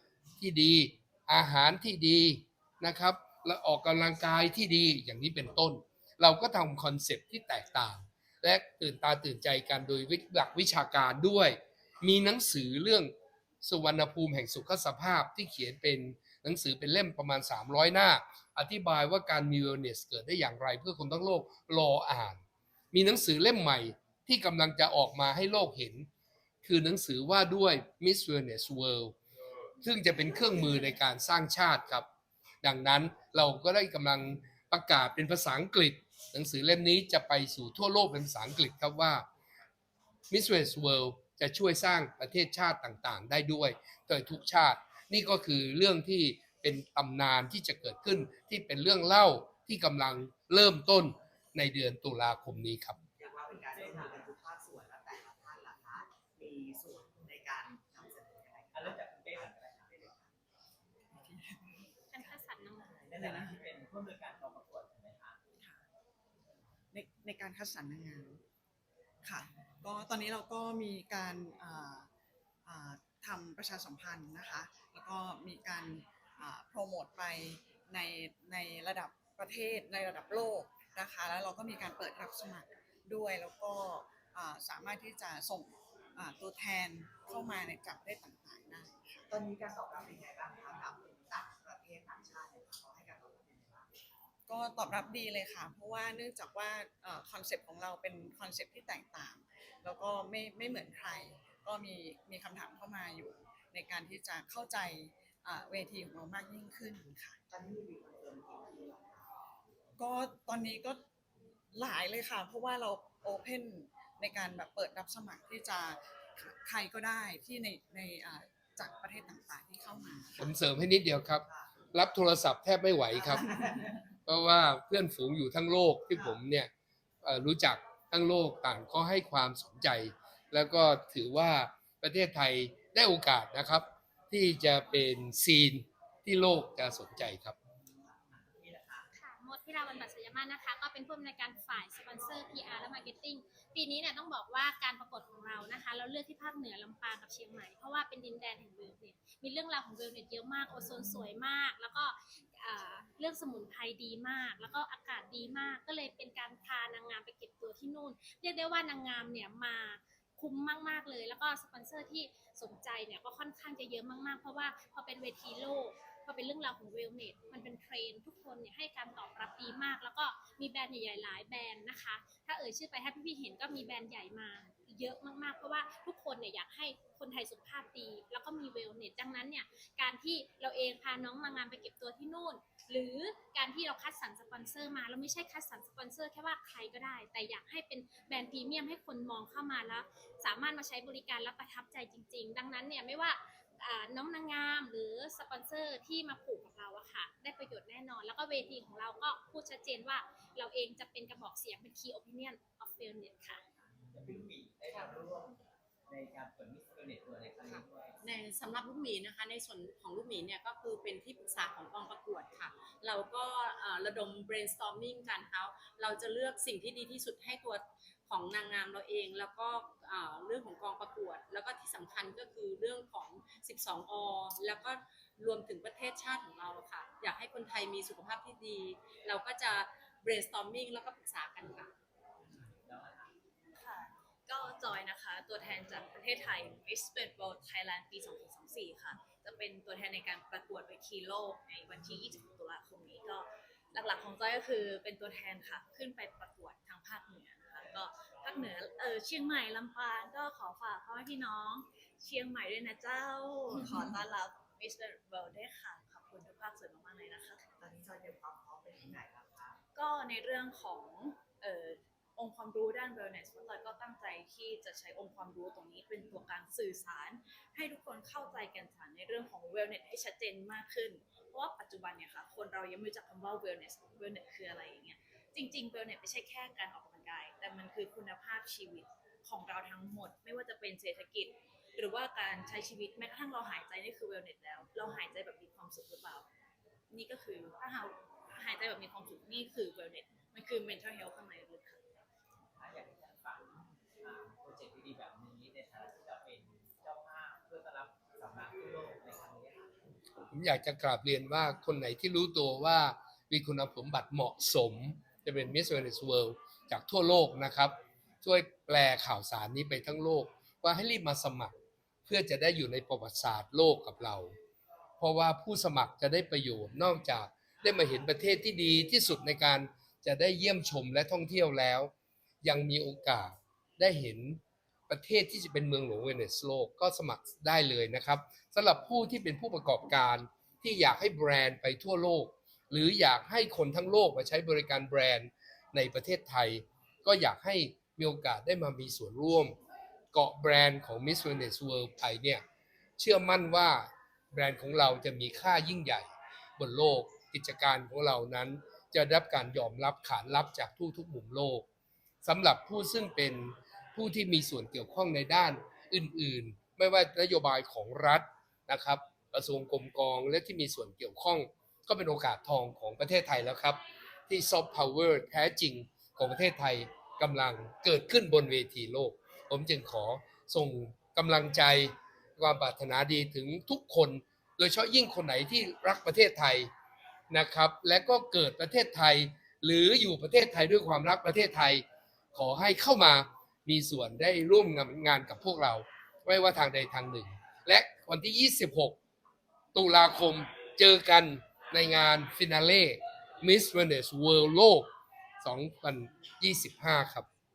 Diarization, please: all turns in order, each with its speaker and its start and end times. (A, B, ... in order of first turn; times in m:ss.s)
0:00.4-0:26.1 A
0:26.6-0:29.2 A
0:29.8-0:32.1 A
0:32.6-0:39.3 A
0:40.3-0:53.0 A
0:53.2-1:00.3 B
0:53.7-0:54.3 C
0:58.7-1:00.0 C
1:01.1-1:01.7 D
1:02.1-1:03.0 E
1:03.0-1:05.4 C
1:03.1-1:03.6 D
1:06.9-1:08.4 D
1:09.2-1:12.1 D
1:12.7-1:29.3 D
1:29.3-1:33.9 B
1:34.5-1:47.4 D
1:47.5-1:49.3 B
1:50.0-1:51.0 D
1:51.7-2:00.5 D
2:00.4-2:03.6 A
2:04.3-2:06.7 A
2:07.2-2:17.6 A
2:18.3-2:19.1 C
2:19.1-3:23.6 E
3:24.1-3:28.2 C
3:27.6-3:51.9 F
3:52.6-3:53.3 C
3:53.8-4:17.7 G
4:17.8-4:19.8 B
4:20.0-4:46.5 G
4:47.1-4:52.0 G
4:52.8-4:59.9 C
5:00.5-5:11.7 A
5:12.3-5:14.6 A
5:15.2-5:22.1 A
5:22.6-5:39.8 A
5:40.3-5:42.6 A
5:43.2-5:51.8 A
5:52.4-6:16.9 A
6:17.5-6:29.2 A
6:29.9-6:35.1 A
6:35.6-6:37.5 A